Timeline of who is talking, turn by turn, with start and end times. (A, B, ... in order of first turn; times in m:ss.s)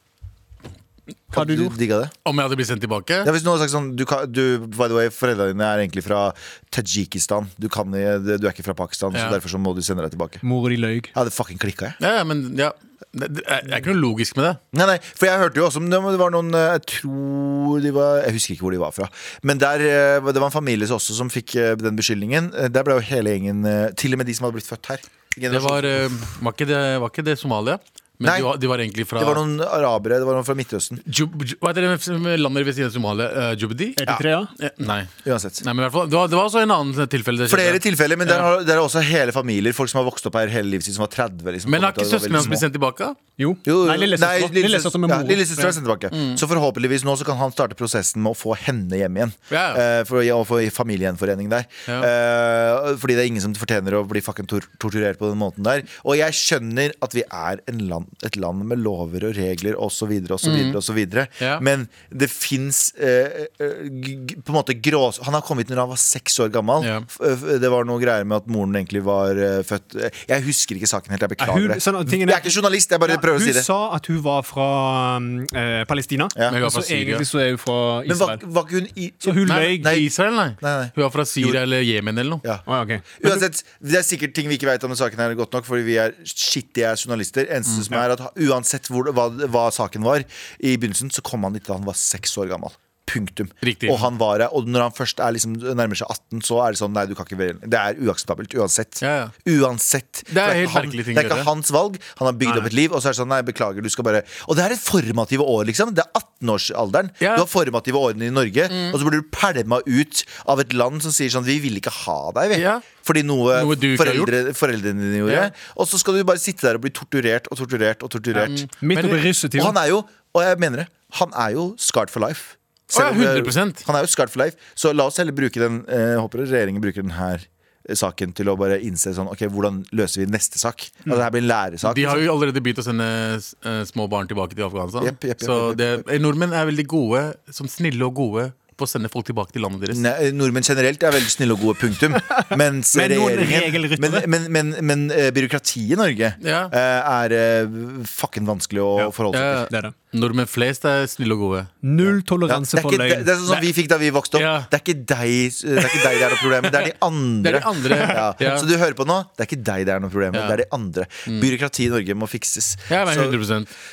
0:01.3-0:01.7 A
0:01.3-0:02.1 B
0:02.2-0:03.3 C
0:03.2-0:10.4 B
0:09.1-0:09.4 C
0:10.4-0:11.1 A
0:11.2-0:12.0 B
0:12.0-0:14.6 C
0:14.7-0:26.2 B
0:25.5-0:29.4 C
0:28.2-0:28.5 B
0:29.2-0:31.0 B
0:31.0-0:34.0 C
0:34.0-0:34.5 A
0:34.6-0:35.1 C
0:35.2-0:35.6 B
0:35.6-0:38.5 C
0:37.5-0:42.6 B
0:41.7-0:43.2 C
0:43.4-0:45.8 A
0:43.6-1:13.7 B
0:46.1-0:46.4 C
0:49.5-0:49.8 C
1:00.4-1:00.8 C
1:01.4-1:01.6 C
1:06.8-1:07.1 C
1:11.4-1:18.4 A
1:16.4-1:16.6 B
1:16.5-1:17.3 C
1:18.1-1:20.1 B
1:19.2-1:20.0 A
1:19.5-1:22.4 C
1:20.6-1:21.6 B
1:22.7-1:23.4 A
1:23.2-1:58.6 B
1:33.6-1:34.1 C
1:39.0-1:39.3 C
1:40.3-1:41.5 C
1:47.2-1:47.5 C
1:48.7-1:49.0 C
1:52.5-1:52.9 C
1:53.5-1:54.3 C
1:55.3-1:55.5 C
1:58.4-1:59.8 A
1:58.4-1:59.3 C
1:59.6-2:12.2 B
2:02.9-2:03.8 C
2:11.8-2:20.0 C
2:15.0-2:16.0 B
2:19.9-2:29.7 B
2:22.3-2:24.3 A
2:26.4-2:26.7 C
2:29.3-2:31.7 C
2:31.8-2:33.4 A
2:32.5-2:43.4 B
2:34.3-2:34.7 C
2:35.8-2:38.7 C
2:40.3-2:40.6 C
2:41.3-2:41.5 C
2:42.9-2:43.7 C